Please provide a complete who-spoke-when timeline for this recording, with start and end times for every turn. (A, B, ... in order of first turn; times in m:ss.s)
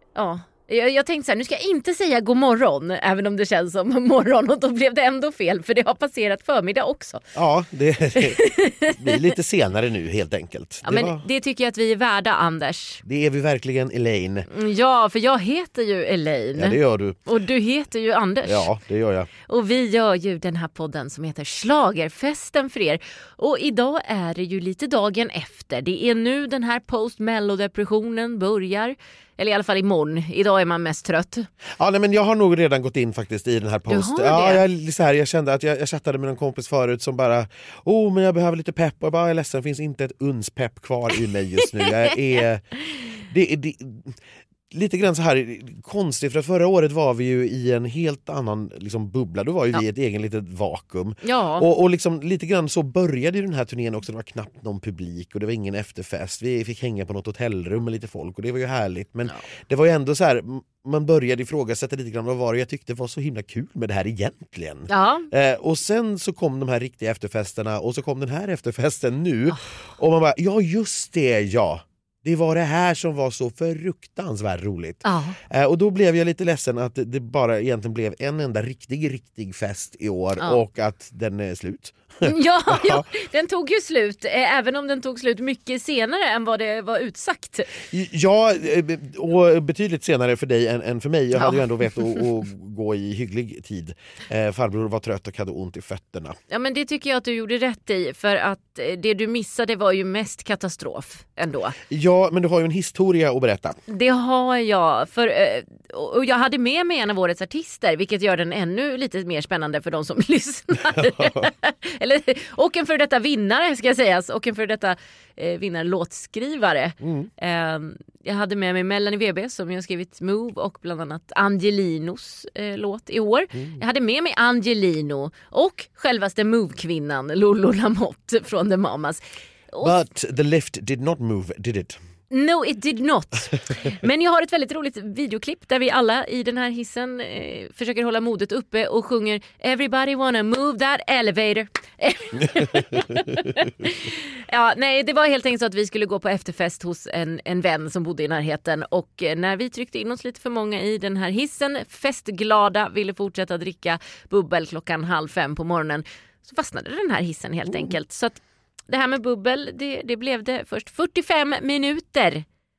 0:00.2-0:07.2 A
0:07.3-0:11.2 B
0:08.2-0:09.2 A
0:10.8-0:13.0 A
0:13.0-0:14.5 B
0:14.5-0:18.7 A
0:16.5-0:17.2 B
0:18.4-0:19.3 B
0:19.4-0:31.5 A
0:31.8-0:42.6 B
0:33.9-0:34.6 A
0:41.6-0:42.1 A
0:43.2-0:44.2 B
0:44.7-1:23.1 B
0:51.2-0:51.6 A
1:04.9-1:05.3 A
1:15.0-1:15.4 A
1:22.2-1:27.7 A
1:27.8-1:36.4 B
1:31.3-1:31.6 A
1:36.5-1:41.8 A
1:41.9-1:43.8 B
1:43.9-2:09.9 A
1:50.9-1:51.5 B
1:57.0-1:57.3 B
2:03.5-2:03.8 B
2:09.8-2:12.0 B
2:12.3-2:42.4 A
2:22.6-2:23.0 B
2:37.7-2:37.9 B